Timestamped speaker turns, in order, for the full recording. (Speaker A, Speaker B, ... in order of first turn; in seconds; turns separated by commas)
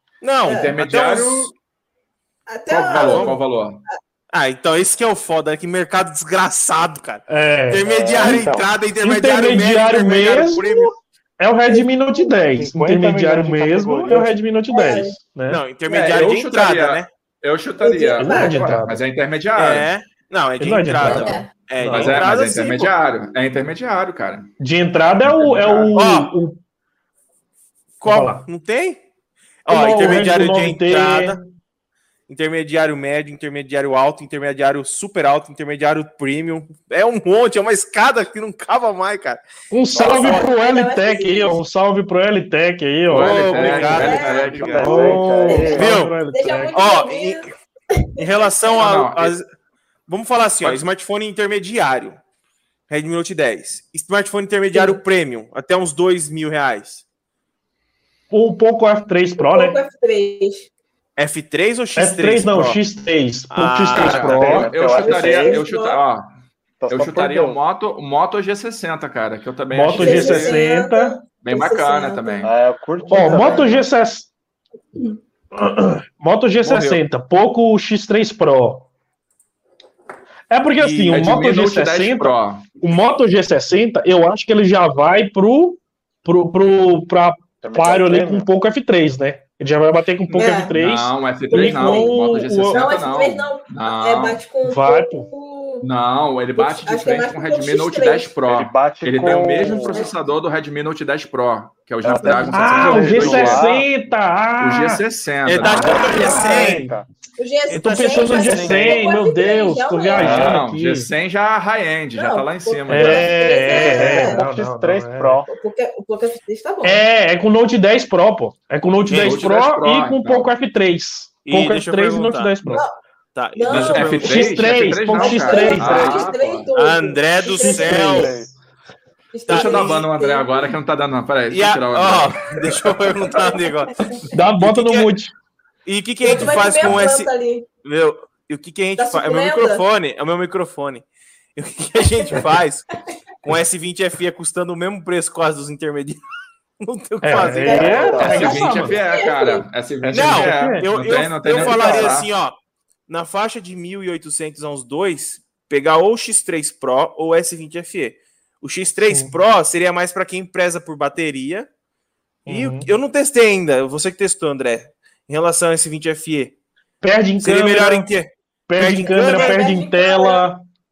Speaker A: 0.2-1.5, Speaker B: 0.5-0.7, Speaker C: 0.5-1.5, Speaker B: 2.5-4.0, Speaker C: 2.7-3.8, Speaker A: 3.0-3.4, Speaker A: 4.3-10.9, Speaker D: 7.3-8.4, Speaker E: 7.8-8.7, Speaker D: 9.0-15.6, Speaker E: 12.3-14.4, Speaker B: 14.1-15.1, Speaker A: 15.5-17.1, Speaker C: 15.9-19.9, Speaker B: 17.8-18.9, Speaker D: 18.2-19.0, Speaker A: 19.6-22.9, Speaker D: 20.6-22.2, Speaker B: 21.1-21.5, Speaker C: 21.9-24.5, Speaker D: 24.6-26.6, Speaker C: 25.2-26.0, Speaker A: 25.9-26.3, Speaker A: 28.0-29.0, Speaker D: 28.0-28.4, Speaker A: 29.7-31.4, Speaker D: 29.7-31.5, Speaker A: 32.3-39.4, Speaker D: 39.7-43.8, Speaker E: 39.9-40.5, Speaker B: 40.1-41.6, Speaker C: 43.1-45.0, Speaker A: 43.1-46.2, Speaker B: 43.8-48.5, Speaker E: 44.6-46.0, Speaker D: 44.8-46.8, Speaker A: 46.7-47.5, Speaker A: 48.2-49.5, Speaker C: 48.8-49.3, Speaker A: 50.1-52.2, Speaker A: 52.9-57.0, Speaker B: 54.7-55.0, Speaker D: 58.3-59.8, Speaker B: 59.4-60.7, Speaker A: 61.2-62.8, Speaker D: 62.0-64.7, Speaker A: 63.5-64.4, Speaker C: 63.9-66.3, Speaker E: 64.0-65.7, Speaker B: 64.7-66.0, Speaker E: 66.8-67.6, Speaker C: 66.9-70.6, Speaker D: 69.7-71.2, Speaker B: 69.9-72.5, Speaker C: 71.4-72.5, Speaker E: 72.4-73.8, Speaker D: 73.1-74.3, Speaker B: 73.1-73.8, Speaker D: 75.5-78.9, Speaker A: 76.7-77.0, Speaker D: 80.5-92.9, Speaker A: 80.8-81.2, Speaker C: 81.1-82.7, Speaker E: 87.6-88.5, Speaker C: 90.3-94.4, Speaker B: 90.3-90.7, Speaker B: 91.5-92.1, Speaker B: 92.7-95.8, Speaker D: 94.7-95.3, Speaker C: 95.8-103.7, Speaker B: 96.6-98.3, Speaker E: 98.5-100.0, Speaker B: 99.3-100.2, Speaker E: 102.0-103.9, Speaker B: 102.2-102.6, Speaker D: 102.5-105.0, Speaker C: 104.6-106.3, Speaker A: 105.5-106.8, Speaker E: 105.7-107.1, Speaker D: 105.8-107.0, Speaker B: 106.0-106.5, Speaker B: 107.4-110.6, Speaker A: 107.7-109.0, Speaker D: 107.7-111.1, Speaker C: 110.2-113.6, Speaker E: 110.2-110.6, Speaker B: 112.2-114.4, Speaker D: 112.9-115.4, Speaker E: 113.7-115.5, Speaker B: 115.5-117.0, Speaker D: 116.8-122.9, Speaker A: 119.1-119.5, Speaker C: 119.2-120.5, Speaker A: 121.5-122.7, Speaker B: 122.7-123.0, Speaker A: 123.3-124.6, Speaker B: 123.6-124.4, Speaker C: 123.7-126.7, Speaker D: 124.2-126.0, Speaker B: 125.2-128.1, Speaker E: 125.3-126.5, Speaker A: 126.8-128.4, Speaker D: 127.5-128.5, Speaker E: 127.9-128.5, Speaker B: 129.3-130.7, Speaker A: 129.5-130.0, Speaker C: 129.5-132.9, Speaker A: 131.5-134.0, Speaker B: 133.2-134.2, Speaker D: 134.3-135.3, Speaker A: 134.6-135.1, Speaker A: 135.9-137.3, Speaker B: 136.2-137.7, Speaker A: 137.8-141.0, Speaker B: 139.0-139.8, Speaker A: 141.6-142.9, Speaker B: 142.0-142.4, Speaker A: 143.4-146.2, Speaker A: 146.8-148.0, Speaker D: 147.2-149.0, Speaker E: 147.5-148.5, Speaker B: 147.6-149.6, Speaker C: 148.1-152.3, Speaker A: 150.1-152.6, Speaker D: 150.2-150.9, Speaker A: 153.1-161.7, Speaker D: 159.0-159.3, Speaker D: 162.5-162.9, Speaker A: 162.5-166.6, Speaker D: 167.0-168.1, Speaker A: 167.4-169.6, Speaker D: 168.7-170.6, Speaker B: 169.0-170.5